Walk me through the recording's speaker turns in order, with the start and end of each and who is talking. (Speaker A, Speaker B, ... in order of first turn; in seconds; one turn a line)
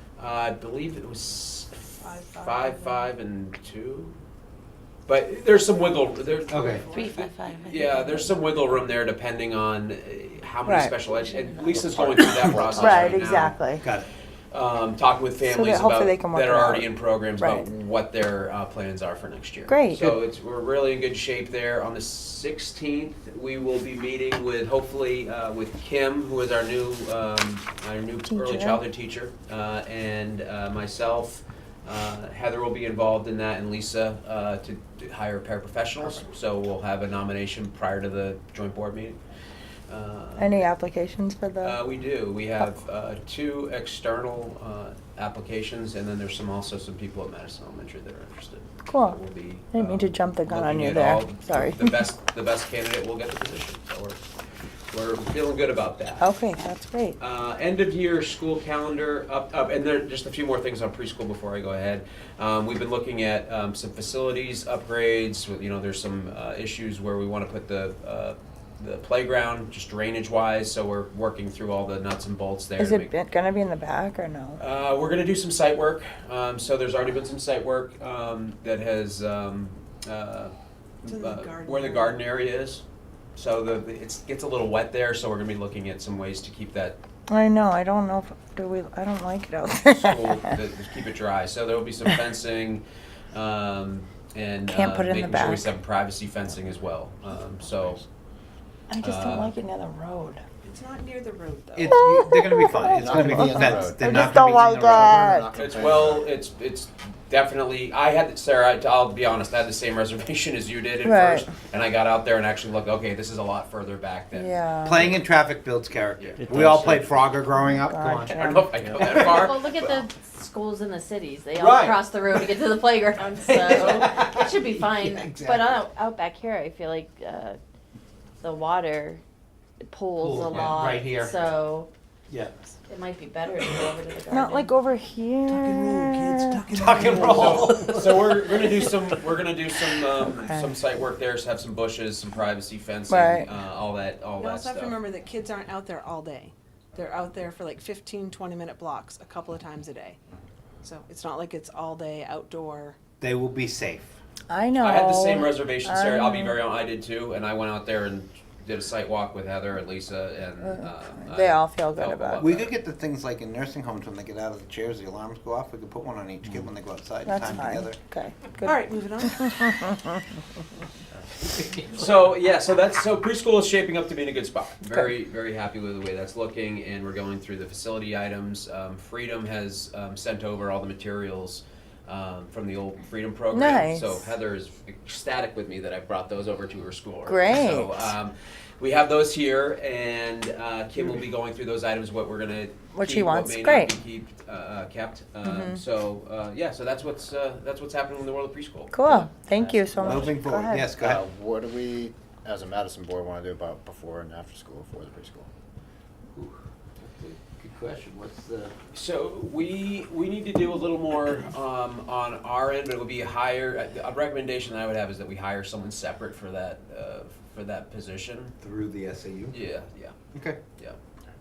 Speaker A: 0.2-4.2
Speaker B: 2.0-3.1
Speaker A: 5.1-13.6
Speaker C: 6.5-6.8
Speaker D: 7.0-7.4
Speaker E: 7.3-7.7
Speaker E: 10.7-11.0
Speaker C: 11.9-13.2
Speaker E: 12.7-13.8
Speaker C: 13.8-14.1
Speaker A: 14.5-39.2
Speaker E: 15.4-17.7
Speaker E: 19.7-20.2
Speaker E: 28.3-28.8
Speaker A: 39.9-40.7
Speaker E: 40.4-41.8
Speaker A: 41.6-54.2
Speaker E: 48.8-49.2
Speaker E: 49.7-52.0
Speaker A: 54.9-56.2
Speaker E: 56.2-57.2
Speaker A: 57.2-73.1
Speaker E: 72.8-74.6
Speaker A: 74.6-82.8
Speaker B: 81.1-82.2
Speaker A: 83.4-87.0
Speaker E: 87.3-90.6
Speaker A: 89.9-98.0
Speaker E: 94.7-95.7
Speaker F: 97.7-98.0
Speaker E: 98.9-100.4
Speaker A: 99.0-99.5
Speaker B: 100.6-101.8
Speaker C: 101.8-105.1
Speaker E: 101.9-105.6
Speaker F: 102.9-106.2
Speaker A: 105.5-115.1
Speaker E: 111.0-111.5
Speaker E: 114.3-115.1
Speaker C: 114.8-118.4
Speaker A: 116.2-117.3
Speaker B: 116.5-116.9
Speaker E: 117.4-118.7
Speaker A: 118.3-120.1
Speaker C: 118.9-119.4
Speaker D: 119.0-127.6
Speaker C: 121.5-122.6
Speaker C: 123.4-125.9
Speaker D: 128.4-129.2
Speaker D: 129.8-131.9
Speaker C: 130.2-131.4
Speaker C: 132.3-132.6
Speaker D: 132.9-134.7
Speaker E: 134.3-136.9
Speaker C: 135.5-138.8
Speaker A: 136.9-145.0
Speaker E: 140.2-140.7
Speaker E: 143.1-143.5
Speaker B: 144.4-150.2
Speaker B: 150.8-153.0
Speaker C: 153.2-154.2
Speaker E: 154.5-156.6
Speaker A: 154.8-162.7
Speaker E: 160.6-162.5
Speaker C: 162.3-168.0
Speaker E: 167.2-170.2
Speaker B: 168.7-169.7
Speaker C: 171.5-172.1
Speaker A: 171.8-200.2
Speaker E: 183.5-184.2
Speaker E: 187.2-188.1
Speaker E: 192.9-193.9
Speaker E: 195.4-195.8
Speaker E: 198.9-200.9
Speaker F: 199.6-200.4
Speaker C: 200.0-201.2
Speaker F: 200.9-205.5
Speaker C: 206.3-208.8
Speaker A: 208.9-218.6
Speaker C: 218.6-219.6
Speaker A: 219.5-220.2
Speaker C: 220.3-220.6